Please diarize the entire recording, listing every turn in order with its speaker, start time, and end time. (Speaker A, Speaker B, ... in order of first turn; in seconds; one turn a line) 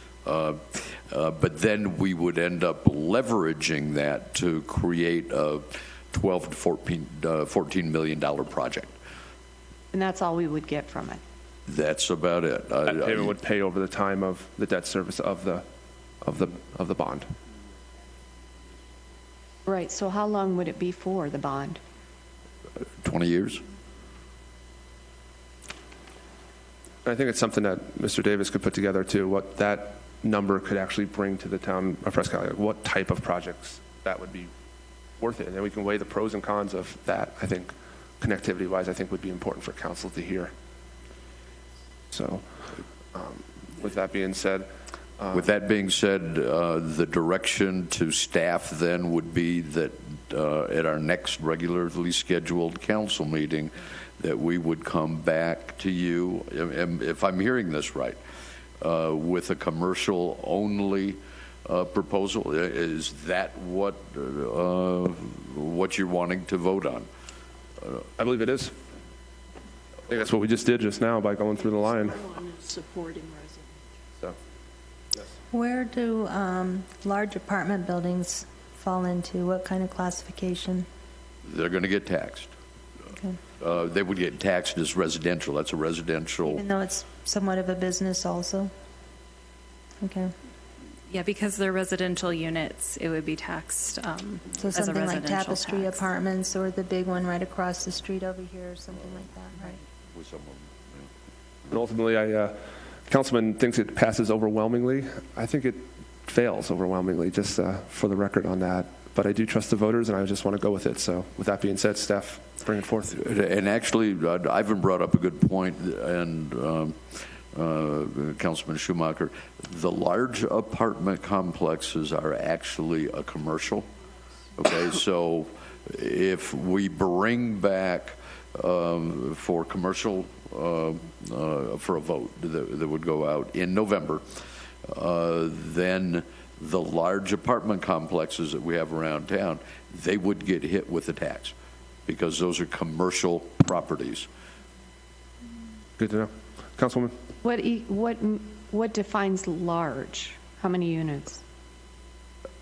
Speaker A: 0.2-8.9
Speaker B: 9.9-11.2
Speaker A: 11.7-13.3
Speaker C: 12.8-15.7
Speaker C: 16.2-17.3
Speaker B: 19.7-21.8
Speaker A: 23.0-23.6
Speaker C: 27.1-34.5
Speaker C: 35.2-40.5
Speaker C: 42.1-42.5
Speaker C: 43.1-45.5
Speaker A: 45.3-58.2
Speaker A: 58.8-67.1
Speaker C: 68.2-68.8
Speaker C: 70.1-72.2
Speaker D: 71.6-73.8
Speaker E: 75.5-80.9
Speaker A: 81.4-82.5
Speaker A: 83.6-86.6
Speaker E: 86.4-88.7
Speaker E: 90.0-90.3
Speaker F: 91.1-96.0
Speaker E: 94.5-99.8
Speaker A: 100.1-100.7
Speaker C: 101.7-113.2
Speaker A: 113.1-123.9
Speaker A: 124.6-134.2
Speaker A: 134.9-141.5
Speaker A: 142.1-144.3
Speaker C: 146.0-147.1
Speaker B: 147.4-151.4